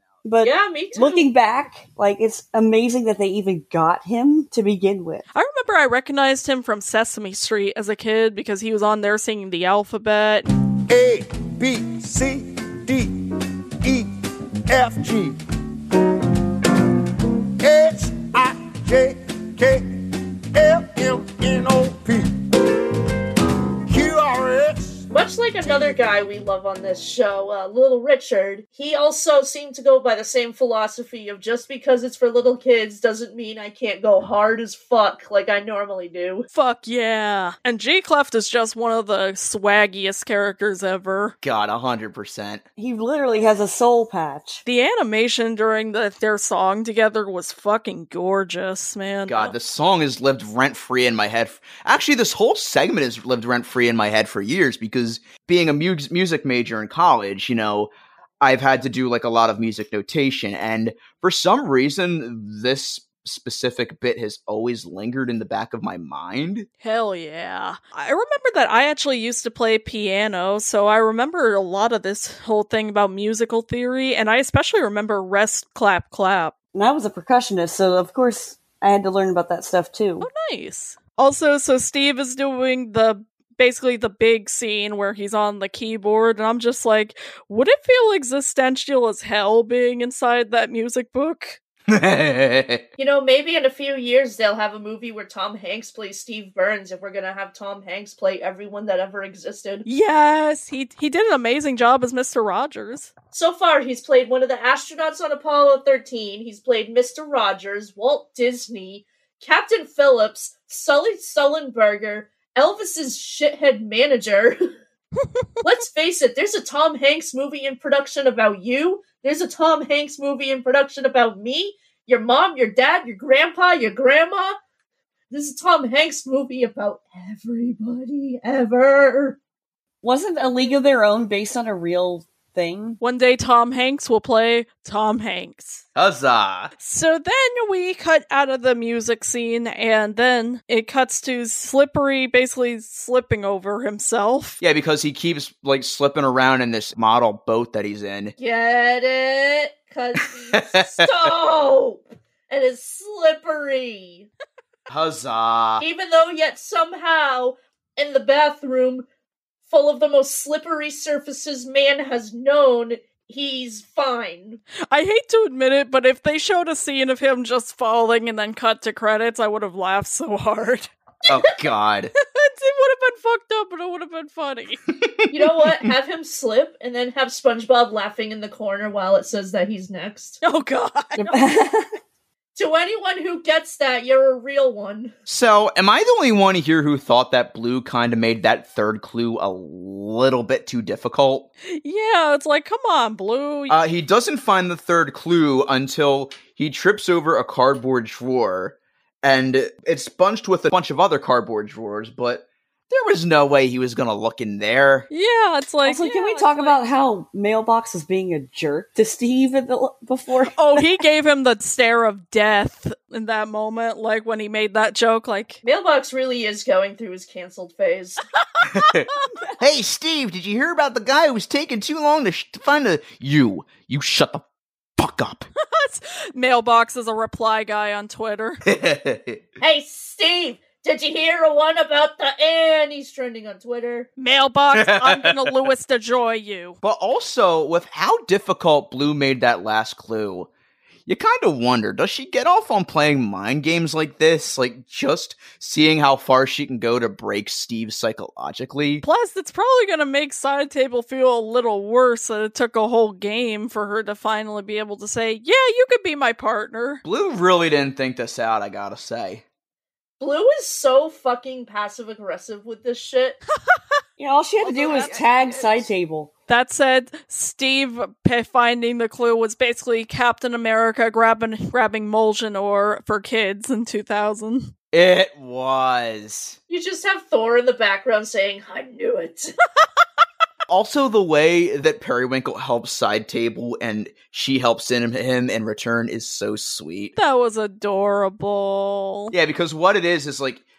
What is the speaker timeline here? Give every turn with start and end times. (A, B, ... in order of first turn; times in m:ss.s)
0:00.2-0:05.2 A
0:00.4-0:01.2 B
0:05.3-0:10.4 C
0:10.9-0:13.1 D
0:13.8-0:14.1 D
0:14.7-0:15.4 D
0:17.6-0:19.9 D
0:20.5-0:22.3 D
0:23.9-0:25.0 D
0:25.1-0:36.5 B
0:36.5-0:41.3 C
0:41.4-0:42.6 E
0:42.8-0:44.6 A
0:44.6-0:49.5 C
0:49.3-1:06.7 E
1:06.8-1:16.5 C
1:16.7-1:20.3 A
1:20.2-1:31.6 C
1:31.9-1:32.8 E
1:33.0-1:39.8 B
1:39.8-1:43.1 C
1:43.3-1:54.7 B
1:55.6-2:04.6 B
2:05.3-2:09.4 B
2:10.0-2:13.0 A
2:13.0-2:15.8 C
2:16.0-2:16.7 E
2:16.8-2:24.6 C
2:24.6-2:28.3 E
2:28.4-2:34.3 B
2:30.2-2:31.1 E
2:34.9-2:35.8 E
2:35.8-2:39.0 B
2:39.7-2:44.6 B
2:44.9-2:50.9 C
2:51.3-2:52.1 E
2:52.2-2:54.8 C
2:54.9-2:55.8 E
2:55.3-3:00.4 B
3:00.4-3:01.4 C
3:01.2-3:02.0 A
3:02.6-3:05.2 B
3:05.3-3:11.5 E
3:11.7-3:13.8 C
3:13.7-3:25.1 E
3:25.1-3:26.8 C
3:25.8-3:30.9 A
3:30.6-3:35.6 C
3:35.6-3:38.2 B
3:38.6-3:44.4 E
3:38.8-3:39.2 C
3:45.0-3:45.5 E
3:45.6-3:48.6 C
3:48.6-3:49.4 E
3:49.6-3:54.1 B
3:54.2-3:56.8 C
3:54.7-3:55.3 E
3:56.8-4:00.5 E
4:01.1-4:09.0 E
4:09.0-4:17.0 C
4:17.0-4:19.4 E
4:20.2-4:23.4 B
4:24.2-4:26.3 A
4:24.6-4:25.9 E
4:24.8-4:25.1 C
4:26.5-4:34.7 C
4:34.9-4:36.6 E
4:36.7-4:39.6 B
4:40.7-4:47.1 E
4:47.2-4:49.3 C
4:49.3-4:50.6 E